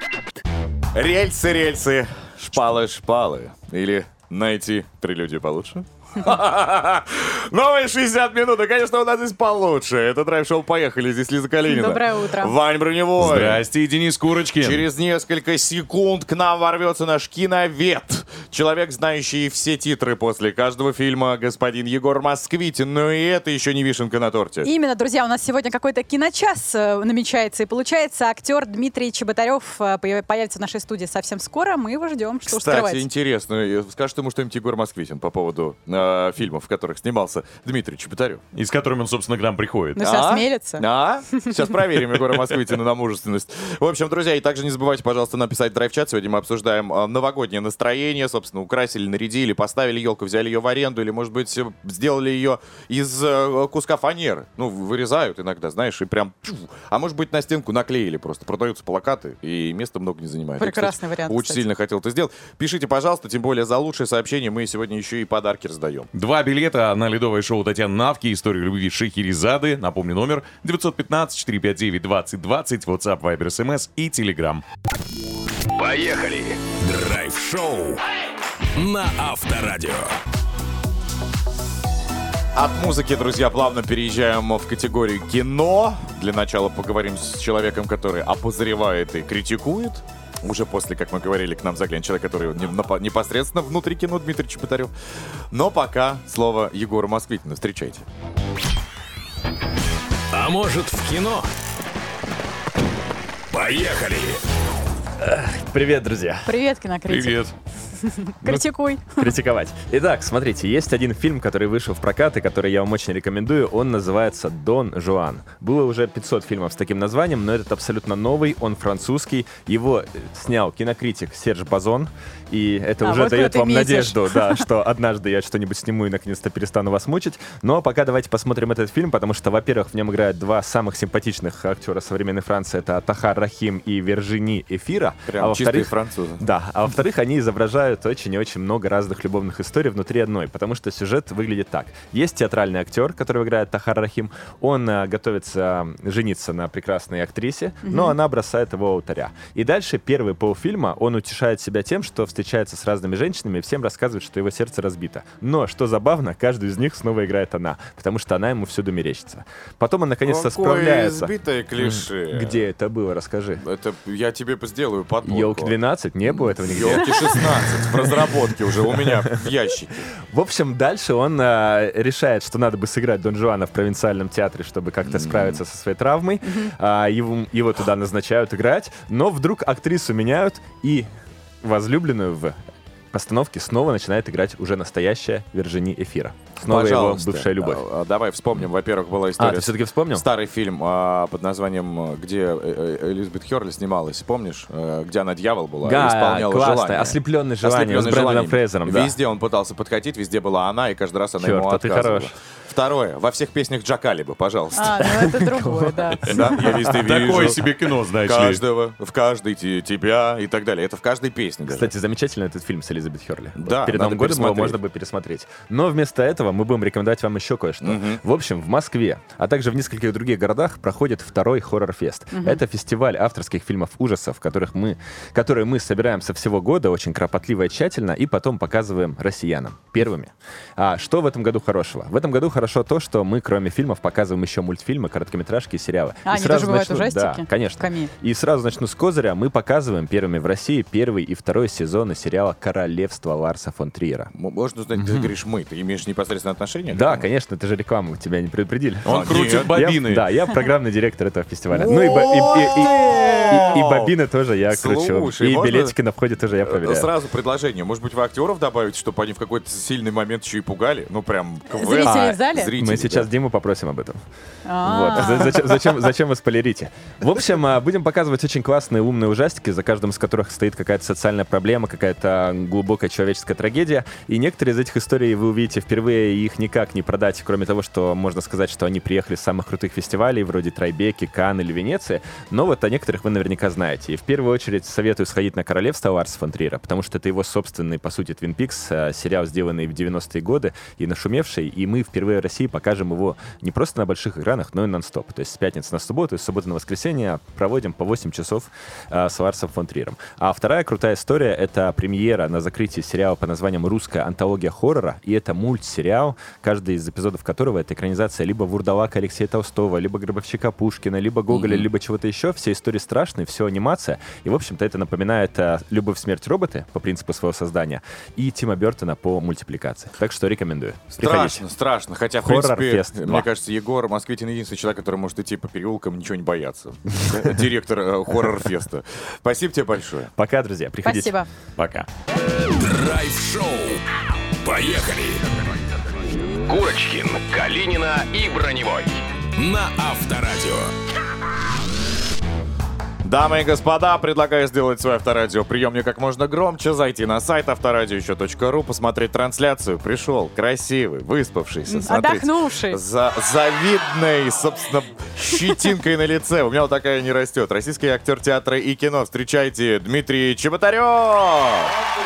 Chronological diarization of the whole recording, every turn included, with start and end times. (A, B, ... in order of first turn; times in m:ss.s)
0:00.9-0:13.6 A
0:11.6-0:12.5 B
0:13.2-0:14.9 C
0:14.6-0:24.7 A
0:24.6-0:33.0 B
0:32.5-0:38.4 A
0:38.5-0:40.0 C
0:40.0-0:41.5 B
0:40.0-1:06.1 A
1:00.6-1:01.7 B
1:06.1-1:14.6 C
1:15.8-1:18.0 D
1:18.8-1:20.2 D
1:22.6-1:34.9 A
1:35.5-1:38.0 A
1:40.3-1:41.5 D
1:43.5-1:44.4 D
1:45.2-1:46.5 E
1:46.4-1:47.4 B
1:47.1-1:47.5 C
1:48.0-1:49.3 B
1:49.1-2:43.6 E
2:03.0-2:04.6 B
2:15.3-2:16.4 A
2:27.8-2:28.2 B
2:40.2-2:42.7 A
2:43.6-2:50.1 A
2:45.2-2:48.4 E
2:48.9-2:49.4 E
2:50.3-3:01.1 E
2:55.0-2:55.6 A
2:56.4-2:56.7 B
3:01.6-3:02.6 E
3:03.1-3:07.8 E
3:06.6-3:25.4 A
3:09.4-3:10.2 E
3:15.8-3:19.1 E
3:21.4-3:22.3 E
3:24.7-3:26.4 B
3:25.6-3:25.9 E
3:26.3-3:27.6 A
3:26.8-3:28.6 C
3:28.2-3:31.9 A
3:31.7-4:04.3 E
3:33.6-3:34.8 A
3:37.8-3:38.2 A
3:42.3-3:42.6 B
3:56.2-3:58.1 B
4:04.3-4:07.3 A
4:05.0-4:05.3 E
4:06.9-4:17.1 E
4:09.0-4:10.3 C
4:09.1-4:09.7 A
4:11.7-4:14.2 A
4:14.7-4:16.0 A
4:16.6-4:23.3 A
4:21.7-4:22.7 B
4:22.0-4:24.2 E
4:24.7-4:25.7 B
4:24.8-5:21.6 E
5:21.2-5:30.3 A
5:22.4-5:23.5 E
5:30.4-5:32.1 E
5:31.0-5:31.5 B
5:32.7-5:34.0 D
5:34.6-5:35.4 D
5:36.7-5:40.9 D
5:43.2-6:02.0 A
5:51.9-5:53.0 B